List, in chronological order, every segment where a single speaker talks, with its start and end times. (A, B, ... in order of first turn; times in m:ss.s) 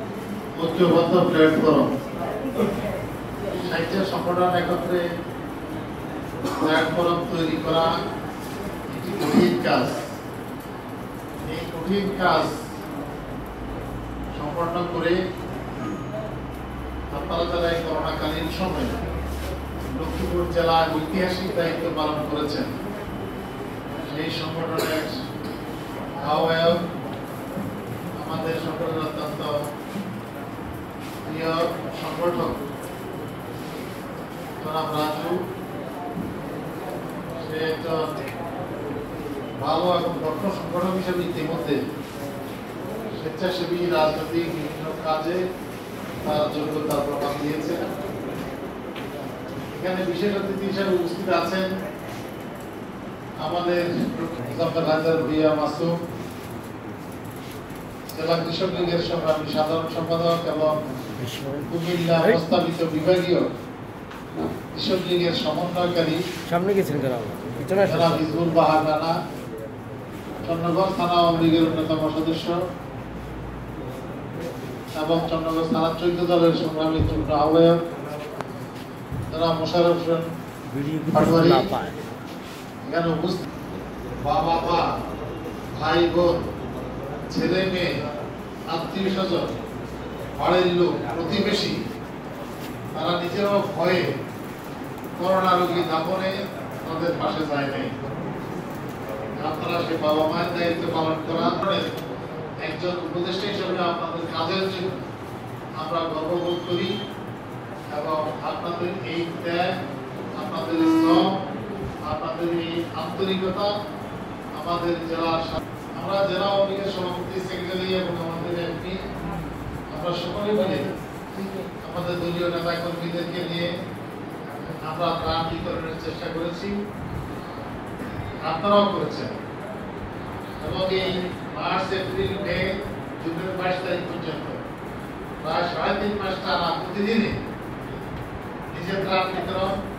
0:00.6-0:01.9 A
0:03.6-0:05.0 A
0:06.6-0:07.9 A
0:08.9-0:10.1 A
0:11.5-0:12.6 A
0:14.4-0:15.2 A
0:17.1-0:19.0 A
0:19.9-0:22.7 A
0:24.1-0:25.2 A
0:26.2-0:26.8 A
0:28.2-0:29.5 A
0:31.3-0:32.6 A
0:34.6-0:35.4 A
0:37.4-0:38.3 A
0:39.6-0:41.8 A
0:43.2-0:45.4 A
0:46.2-0:47.9 A
0:49.7-0:51.7 A
0:53.4-0:55.9 A
0:58.1-1:00.8 A
1:01.2-1:01.7 B
1:01.6-1:03.5 A
1:04.6-1:06.2 A
1:06.5-1:08.2 B
1:07.8-1:09.1 A
1:10.4-1:12.6 A
1:15.0-1:17.8 A
1:19.3-1:20.3 A
1:20.8-1:22.0 B
1:21.1-1:21.7 A
1:22.9-1:23.4 A
1:24.2-1:24.9 A
1:25.8-1:26.4 A
1:27.3-1:27.9 A
1:28.7-1:29.5 A
1:30.4-1:31.8 A
1:33.0-1:34.1 A
1:35.2-1:37.9 A
1:39.4-1:41.9 A
1:42.6-1:45.1 A
1:45.8-1:46.9 A
1:47.9-1:49.7 A
1:50.4-1:51.4 A
1:52.0-1:53.7 A
1:54.6-1:59.0 A
1:59.9-2:00.9 A
2:01.8-2:03.7 A
2:04.8-2:06.8 A
2:08.4-2:09.4 A
2:10.6-2:14.6 A
2:15.4-2:17.4 A
2:18.7-2:19.8 A